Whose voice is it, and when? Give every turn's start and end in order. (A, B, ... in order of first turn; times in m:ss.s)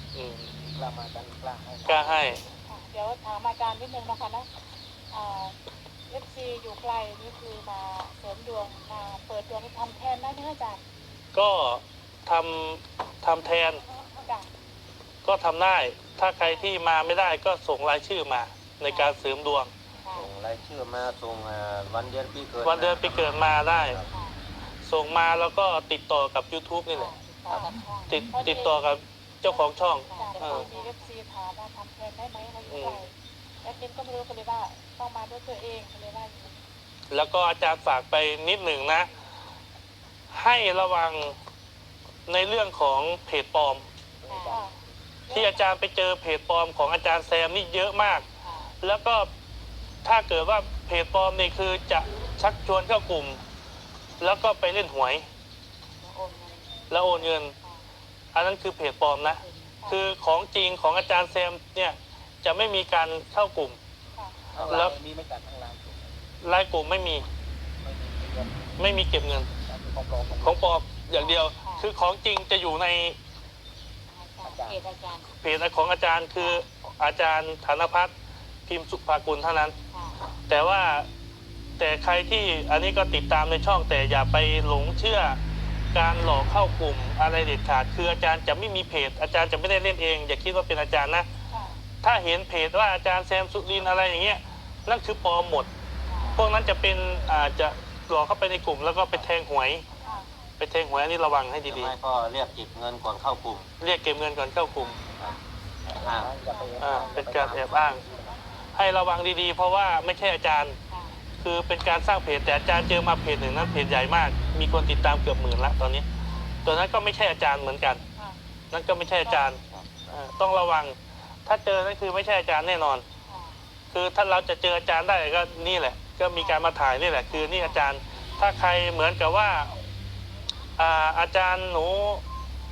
0:00.1-0:00.5 A
0:00.7-0:02.4 B
0:01.8-0:02.4 A
0:02.7-0:04.5 C
0:05.1-0:05.6 C
0:06.1-0:10.8 C
0:11.3-0:13.8 A
0:15.2-0:19.7 A
0:20.0-0:20.3 D
0:20.1-0:24.1 E
0:22.6-0:24.0 A
0:24.1-0:24.4 D
0:24.8-0:27.1 A
0:26.9-0:28.2 D
0:27.5-0:27.7 C
0:28.1-0:30.7 A
0:28.3-0:28.8 C
0:29.4-0:36.6 C
0:30.1-0:31.0 D
0:32.7-0:33.0 A
0:37.1-0:39.1 A
0:40.3-0:41.4 A
0:42.3-0:43.9 A
0:44.2-0:44.8 B
0:44.3-0:44.6 D
0:44.5-0:44.8 C
0:45.3-0:45.6 C
0:45.3-0:48.2 A
0:48.4-0:48.7 D
0:48.8-0:49.3 A
0:50.0-0:53.4 A
0:54.2-0:55.2 A
0:56.0-0:57.8 D
0:56.9-0:57.5 A
0:58.3-1:03.8 A
0:59.2-0:59.8 D
1:04.1-1:04.5 C
1:04.5-1:06.2 B
1:04.6-1:04.9 A
1:06.4-1:07.2 A
1:07.8-1:08.7 B
1:08.8-1:09.5 A
1:09.6-1:10.8 B
1:10.4-1:13.2 A
1:11.1-1:11.8 D
1:14.1-1:15.3 D
1:14.4-1:14.8 B
1:15.4-1:18.1 A
1:18.7-1:19.7 A
1:19.9-1:20.2 D
1:20.5-1:21.1 A
1:21.8-1:25.4 A
1:25.9-1:31.3 A
1:31.5-1:31.8 C
1:32.0-1:35.7 A
1:36.3-1:39.8 A
1:40.6-1:41.9 A
1:41.6-1:43.7 E
1:43.8-1:45.0 A
1:45.2-1:46.4 E
1:46.0-1:48.3 B
1:46.4-1:48.0 C
1:46.8-1:48.0 A
1:48.7-1:50.8 A
1:50.9-1:51.2 D
1:51.4-1:56.0 A
1:56.6-1:58.0 A
1:58.7-2:03.0 A
1:59.6-2:00.1 E
2:03.9-2:09.7 A
2:07.4-2:07.8 D
2:10.8-2:12.2 A